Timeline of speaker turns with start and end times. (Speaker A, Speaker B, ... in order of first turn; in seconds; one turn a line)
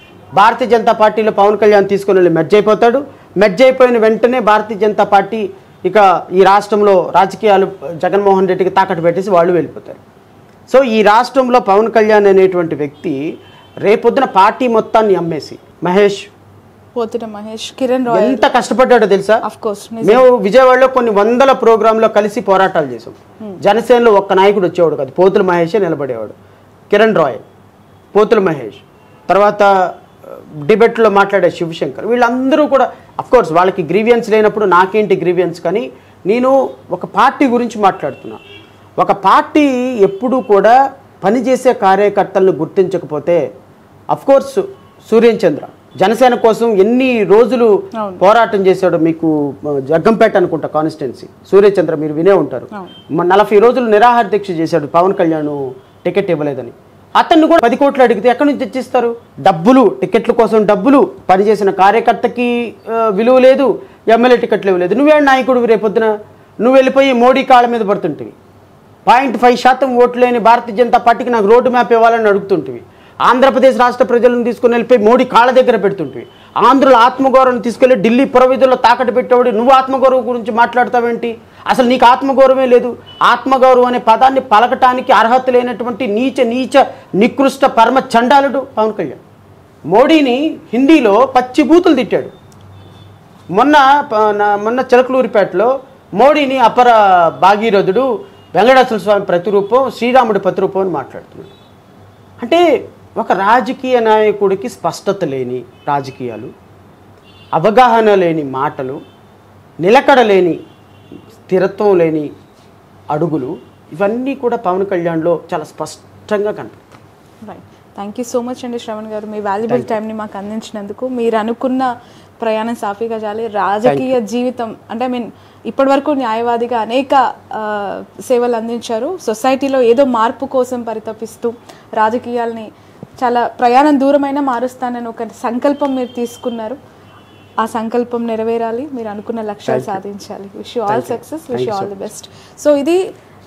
Speaker A: 0.3-10.0
Speaker A: 10.7-13.2
Speaker A: 13.8-16.3
Speaker B: 16.9-18.5
Speaker A: 18.1-19.4
Speaker B: 19.4-20.2
Speaker A: 20.0-26.3
Speaker A: 26.9-27.4
Speaker A: 28.1-29.7
Speaker A: 30.6-38.4
Speaker A: 39.0-43.4
Speaker A: 44.1-47.7
Speaker B: 48.0-48.2
Speaker A: 48.2-66.1
Speaker A: 66.6-68.3
Speaker A: 69.0-89.2
Speaker A: 89.9-92.3
Speaker A: 93.5-101.5
Speaker A: 103.2-106.5
Speaker A: 107.5-109.0
Speaker A: 109.8-110.6
Speaker A: 111.5-112.3
Speaker A: 113.1-116.8
Speaker B: 117.4-136.8
Speaker A: 123.8-124.2
Speaker B: 137.6-143.0
Speaker A: 139.7-140.0
Speaker A: 140.9-141.9